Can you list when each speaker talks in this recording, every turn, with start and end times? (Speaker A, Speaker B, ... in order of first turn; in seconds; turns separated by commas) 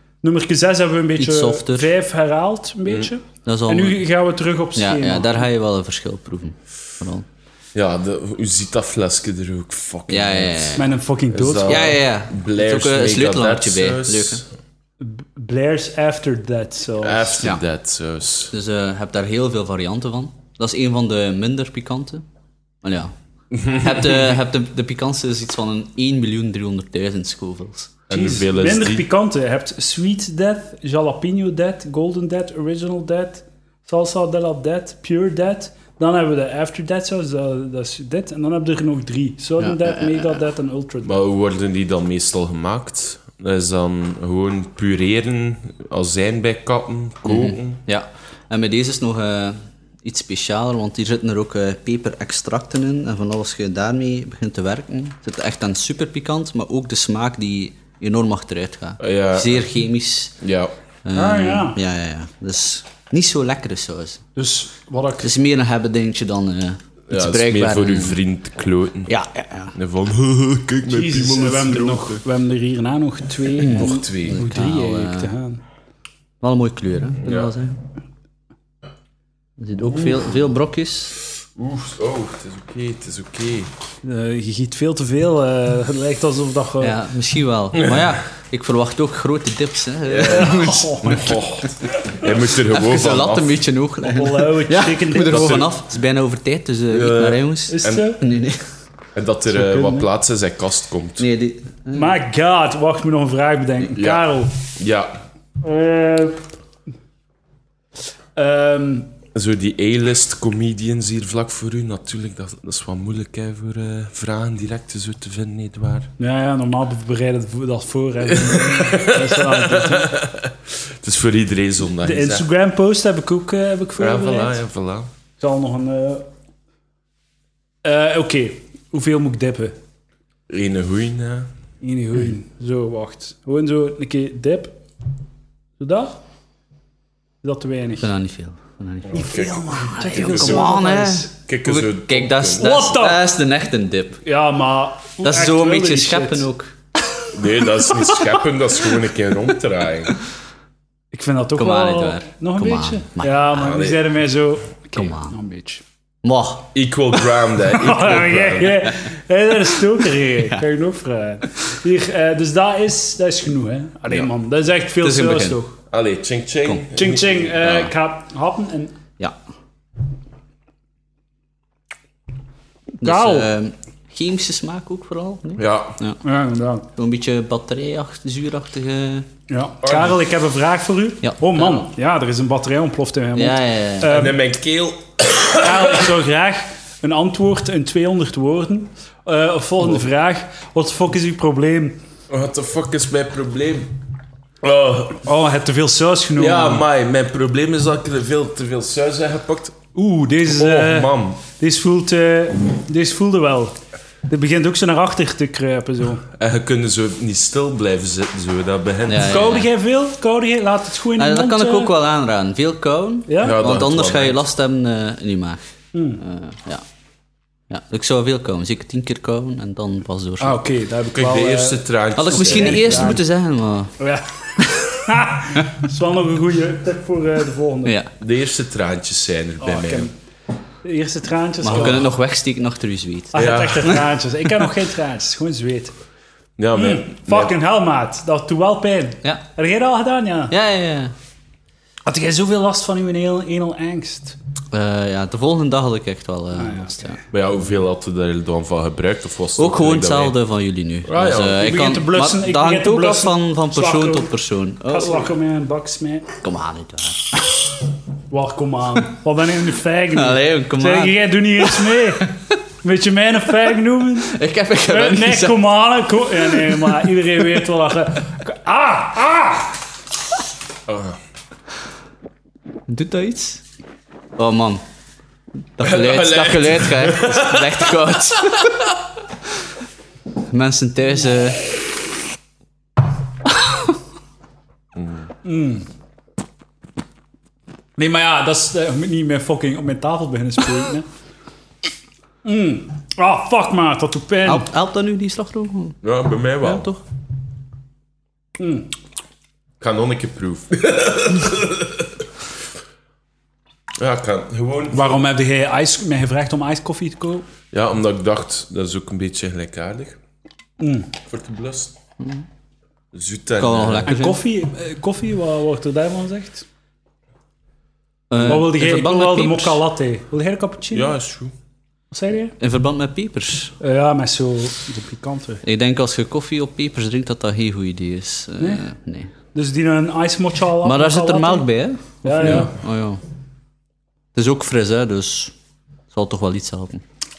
Speaker A: 0.2-5.5, Speaker B: 1.2-1.9, Speaker B: 3.5-4.0, Speaker B: 4.8-7.3, Speaker C: 7.7-14.5, Speaker B: 10.1-10.9, Speaker A: 10.8-12.0, Speaker B: 11.7-14.4, Speaker A: 15.0-17.4, Speaker C: 17.0-18.5, Speaker B: 18.5-22.2, Speaker B: 22.8-23.1, Speaker C: 23.5-24.2, Speaker B: 23.6-27.9, Speaker C: 28.1-29.1, Speaker A: 28.1-41.1, Speaker B: 39.6-40.4, Speaker C: 41.0-47.8, Speaker B: 47.3-60.4, Speaker C: 59.0-59.7, Speaker C: 60.4-60.7, Speaker B: 61.0-64.2, Speaker A: 61.1-61.8, Speaker A: 64.4-65.3, Speaker B: 65.2-68.2, Speaker C: 67.1-69.1, Speaker B: 69.1-69.8, Speaker C: 69.8-72.2, Speaker A: 70.9-75.6, Speaker B: 73.6-75.3, Speaker C: 73.7-74.4, Speaker B: 76.4-77.8, Speaker C: 77.2-77.5, Speaker B: 79.6-81.2, Speaker C: 80.0-80.2, Speaker C: 81.5-83.7, Speaker A: 84.0-87.0, Speaker B: 86.8-91.4, Speaker C: 90.1-93.5, Speaker A: 90.2-91.4, Speaker B: 92.5-98.6, Speaker A: 94.1-95.7, Speaker C: 95.2-95.7, Speaker C: 96.9-98.1, Speaker A: 97.7-98.2, Speaker C: 99.2-101.3, Speaker A: 99.5-100.1, Speaker B: 101.2-102.2, Speaker A: 101.9-104.6, Speaker C: 103.9-105.2, Speaker A: 105.6-106.4, Speaker A: 108.4-109.1, Speaker C: 109.3-116.1, Speaker A: 116.2-120.2, Speaker C: 118.3-122.4, Speaker A: 122.0-124.6, Speaker C: 124.0-125.1, Speaker A: 125.4-126.3, Speaker A: 127.8-129.8, Speaker C: 130.5-131.5, Speaker A: 131.8-134.8, Speaker A: 135.8-136.2, Speaker A: 137.4-138.1, Speaker B: 138.0-144.2, Speaker C: 139.1-140.7, Speaker A: 139.1-141.3, Speaker C: 141.5-142.7, Speaker A: 142.6-143.2, Speaker A: 144.2-146.4, Speaker B: 145.2-146.7, Speaker C: 147.3-150.2, Speaker A: 151.1-155.8, Speaker B: 151.6-153.5, Speaker C: 153.5-154.0, Speaker B: 155.0-155.3, Speaker B: 156.2-156.7, Speaker C: 156.7-158.9, Speaker A: 157.7-165.7, Speaker B: 165.0-165.6, Speaker C: 165.9-167.9, Speaker A: 166.9-168.9, Speaker A: 173.0-173.5, Speaker B: 173.0-176.2, Speaker C: 175.6-176.0, Speaker A: 176.2-176.9, Speaker B: 177.0-179.3, Speaker A: 179.5-184.4, Speaker C: 179.8-180.2, Speaker B: 181.2-181.9, Speaker B: 183.4-184.2, Speaker C: 184.1-186.1, Speaker A: 185.6-192.0, Speaker C: 192.3-194.0, Speaker C: 194.6-195.2, Speaker A: 195.2-196.8, Speaker C: 196.4-199.8, Speaker A: 199.9-203.8, Speaker C: 200.5-201.4, Speaker A: 204.3-206.2, Speaker C: 206.3-209.6, Speaker B: 209.1-209.7, Speaker A: 209.2-211.9, Speaker B: 211.2-215.6, Speaker A: 213.3-213.6, Speaker C: 213.4-214.4, Speaker A: 215.9-216.2, Speaker B: 216.2-216.8, Speaker B: 217.7-220.6, Speaker A: 220.4-223.2, Speaker C: 221.1-223.2, Speaker B: 222.2-224.0, Speaker A: 224.0-228.0, Speaker B: 224.6-224.8, Speaker B: 227.8-228.1, Speaker C: 228.2-230.1, Speaker A: 229.6-230.1, Speaker A: 230.8-232.1, Speaker B: 231.6-234.0, Speaker A: 233.3-236.0, Speaker C: 233.3-234.0, Speaker C: 236.6-237.5, Speaker A: 236.8-240.5, Speaker B: 240.5-241.1, Speaker A: 242.1-244.4, Speaker B: 244.7-247.2, Speaker A: 246.6-247.2, Speaker C: 247.3-250.3, Speaker B: 249.6-255.3, Speaker C: 251.1-251.7, Speaker A: 251.6-254.3, Speaker A: 254.8-256.3, Speaker B: 256.4-257.7, Speaker A: 258.3-269.8, Speaker B: 260.1-262.3, Speaker B: 264.2-265.7, Speaker B: 266.5-267.0, Speaker C: 270.9-271.2, Speaker B: 272.9-273.6, Speaker B: 274.4-274.8, Speaker B: 275.8-278.7, Speaker C: 275.8-278.8, Speaker B: 280.5-281.7, Speaker C: 284.9-285.3, Speaker A: 285.4-285.9, Speaker A: 288.0-291.1, Speaker A: 292.4-294.7, Speaker B: 294.5-296.0, Speaker C: 296.0-296.9, Speaker B: 296.6-297.0, Speaker A: 298.6-298.9, Speaker C: 299.8-302.3, Speaker C: 304.0-305.2, Speaker A: 304.9-307.5, Speaker C: 307.7-310.2, Speaker A: 310.8-311.1, Speaker C: 311.2-312.0, Speaker C: 313.1-314.1, Speaker B: 313.6-314.4, Speaker A: 314.1-316.7, Speaker B: 318.3-319.8, Speaker A: 318.4-321.1, Speaker C: 320.9-321.5, Speaker A: 322.1-322.6, Speaker B: 322.6-323.8, Speaker A: 323.8-325.6, Speaker B: 325.6-329.3, Speaker A: 328.6-328.9, Speaker A: 329.5-331.7, Speaker B: 330.8-333.2, Speaker A: 332.2-332.7, Speaker C: 332.4-332.7, Speaker B: 334.4-335.5, Speaker B: 336.1-337.0